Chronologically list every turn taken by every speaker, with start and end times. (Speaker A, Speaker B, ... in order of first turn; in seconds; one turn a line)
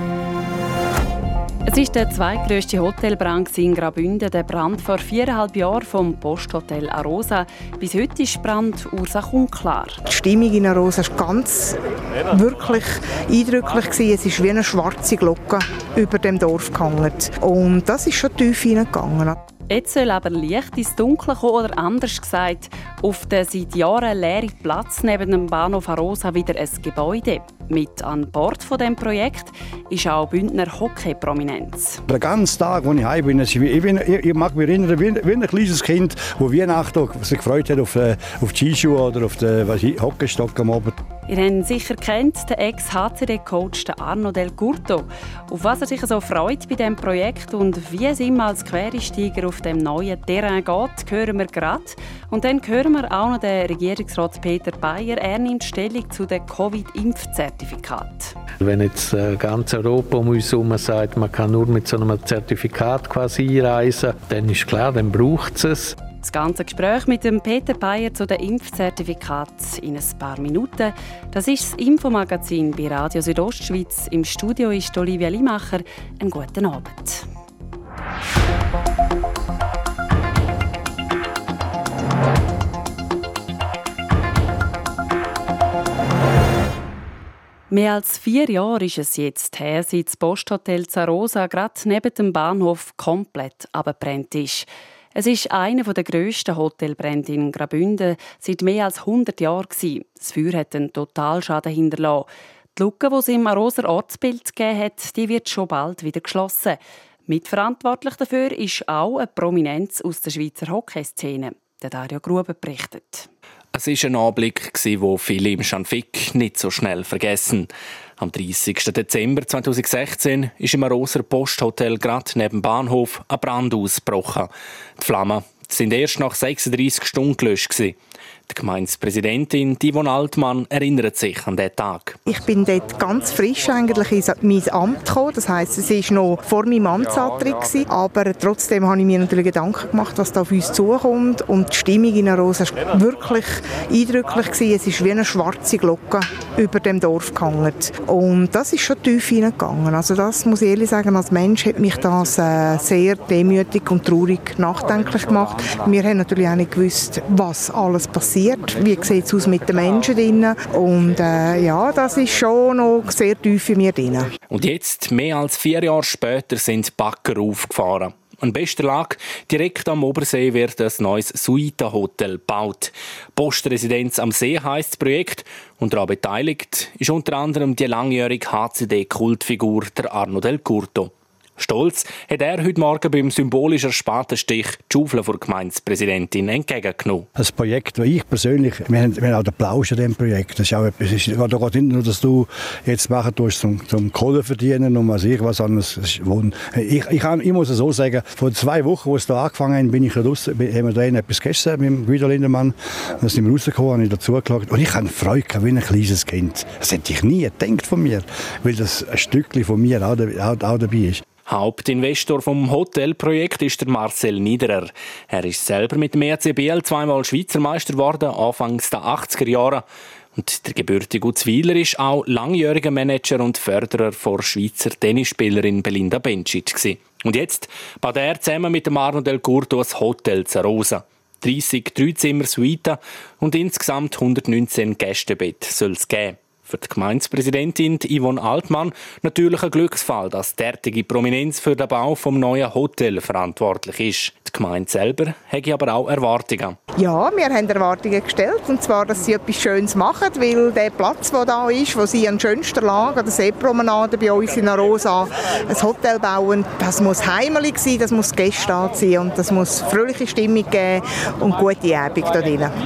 Speaker A: 1.6-10.0
Speaker B: 10.1-11.8
Speaker B: 12.3-19.4
Speaker A: 19.7-32.0
Speaker C: 32.1-41.0
Speaker A: 41.3-58.3
Speaker D: 58.6-66.0
Speaker A: 66.2-77.2
Speaker A: 87.7-113.3
Speaker E: 113.7-128.0
Speaker E: 128.5-132.2
Speaker B: 132.3-164.3
Speaker E: 164.5-187.2
Speaker C: 187.4-211.2
Speaker E: 211.5-219.8
Speaker E: 220.3-246.8
Speaker B: 246.9-262.7